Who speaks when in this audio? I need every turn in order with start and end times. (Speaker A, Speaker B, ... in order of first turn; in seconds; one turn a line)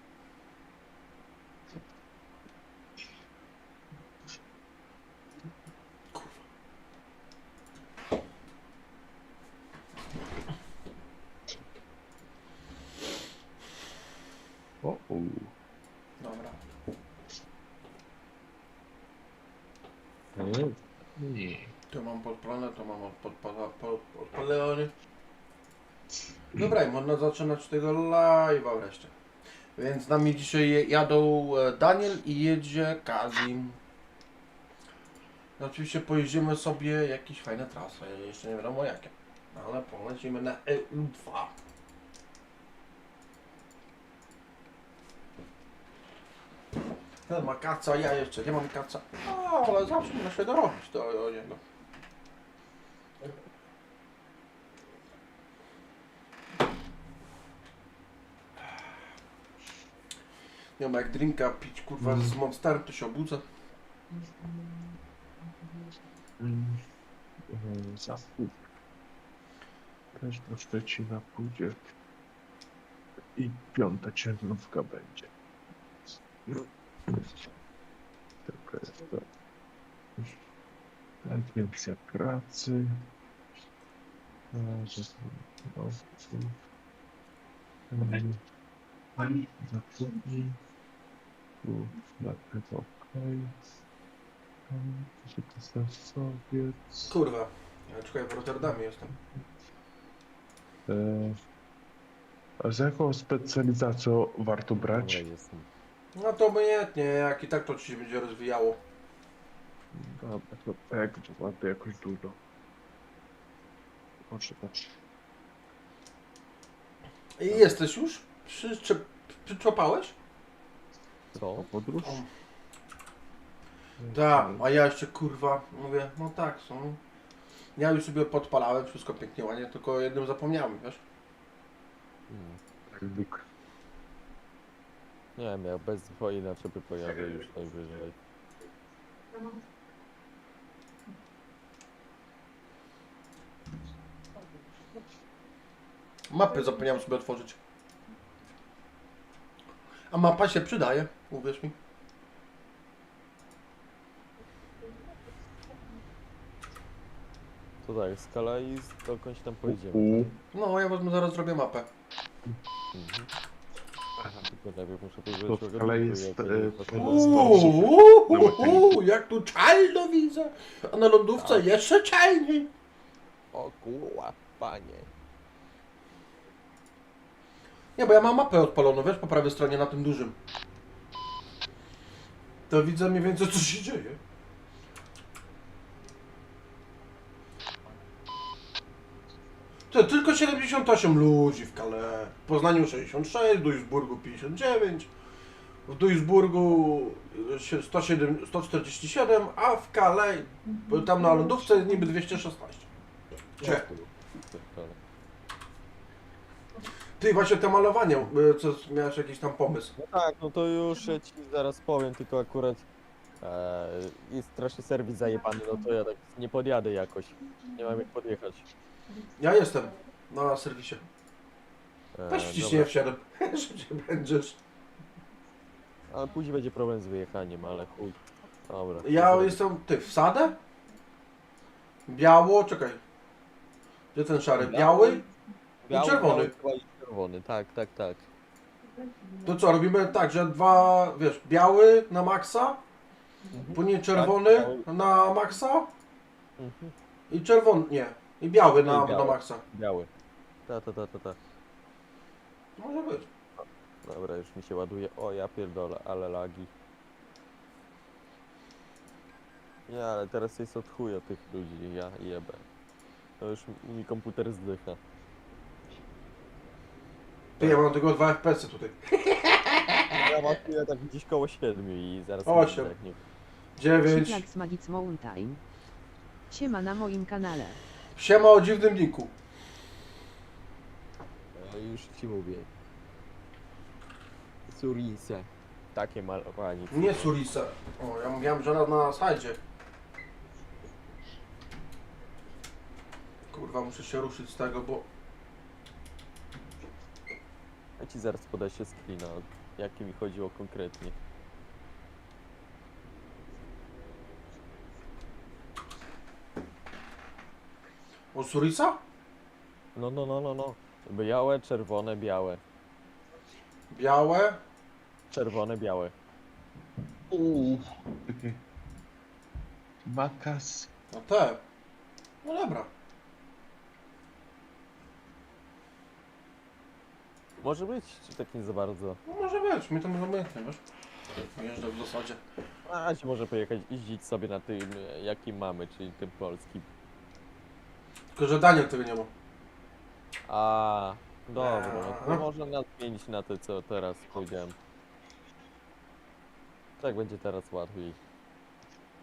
Speaker A: 6.1-6.4
Speaker B: 14.8-15.5
Speaker A: 16.2-16.6
Speaker B: 20.3-21.7
Speaker A: 21.9-24.9
Speaker A: 26.6-29.1
Speaker A: 29.8-33.8
Speaker A: 35.6-41.6
Speaker A: 47.3-51.6
Speaker A: 60.8-63.5
Speaker B: 62.0-62.4
Speaker B: 64.4-64.9
Speaker B: 66.4-66.8
Speaker B: 67.5-68.6
Speaker B: 70.2-71.8
Speaker B: 73.4-75.3
Speaker B: 76.5-77.3
Speaker B: 78.5-79.2
Speaker B: 81.2-82.9
Speaker B: 84.5-86.6
Speaker B: 87.9-88.4
Speaker B: 89.2-90.6
Speaker B: 91.6-93.5
Speaker B: 94.7-97.2
Speaker A: 97.1-99.1
Speaker B: 100.9-101.4
Speaker B: 102.6-105.3
Speaker C: 104.8-105.7
Speaker A: 106.2-108.8
Speaker B: 109.9-112.4
Speaker B: 114.3-114.9
Speaker A: 117.4-120.2
Speaker C: 121.3-121.7
Speaker B: 121.4-122.2
Speaker B: 124.0-124.7
Speaker A: 124.1-127.0
Speaker A: 127.8-131.0
Speaker C: 132.3-132.6
Speaker B: 132.9-133.4
Speaker C: 135.4-138.2
Speaker A: 146.3-147.6
Speaker A: 150.1-151.8
Speaker C: 157.8-160.3
Speaker B: 159.7-160.4
Speaker A: 160.5-161.9
Speaker C: 162.9-163.3
Speaker B: 164.2-164.4
Speaker C: 164.4-167.8
Speaker B: 165.5-169.0
Speaker A: 166.9-172.7
Speaker C: 171.3-171.7
Speaker C: 173.5-175.1
Speaker A: 178.0-180.4
Speaker A: 182.7-184.2
Speaker A: 189.9-195.1
Speaker A: 195.9-202.9
Speaker A: 203.6-203.9
Speaker C: 203.6-205.0
Speaker A: 207.2-209.9
Speaker C: 210.0-212.8
Speaker C: 213.4-218.7
Speaker A: 219.4-221.1
Speaker C: 222.2-223.0
Speaker A: 222.3-224.6
Speaker C: 226.1-229.7
Speaker A: 229.0-230.6
Speaker A: 232.1-233.0
Speaker A: 234.1-235.2
Speaker C: 234.6-235.2
Speaker C: 235.8-238.3
Speaker A: 235.9-236.5
Speaker A: 239.4-242.8
Speaker C: 243.5-244.9
Speaker A: 243.7-245.9
Speaker C: 246.6-246.9
Speaker A: 247.3-249.6
Speaker C: 248.8-250.1
Speaker C: 250.7-251.4
Speaker A: 252.8-253.3
Speaker C: 253.6-256.7
Speaker C: 259.9-262.6
Speaker C: 263.4-265.0
Speaker A: 267.6-270.2
Speaker C: 270.2-273.2
Speaker A: 272.4-272.9
Speaker A: 273.8-274.4
Speaker D: 274.1-275.6
Speaker D: 276.5-277.8
Speaker A: 278.2-279.3
Speaker C: 281.6-282.7
Speaker C: 284.7-287.4
Speaker A: 286.9-289.6
Speaker A: 293.5-295.1
Speaker C: 298.0-301.1
Speaker A: 308.3-309.0
Speaker C: 309.9-312.6
Speaker A: 313.9-314.6
Speaker C: 315.3-316.1
Speaker B: 317.3-318.6
Speaker B: 320.1-320.9
Speaker A: 321.1-321.6
Speaker A: 322.4-322.9
Speaker C: 327.6-329.2
Speaker A: 329.3-330.8
Speaker A: 331.5-332.4
Speaker C: 332.9-336.9
Speaker A: 338.4-339.3
Speaker C: 340.5-344.8
Speaker A: 341.6-342.4
Speaker C: 347.0-348.2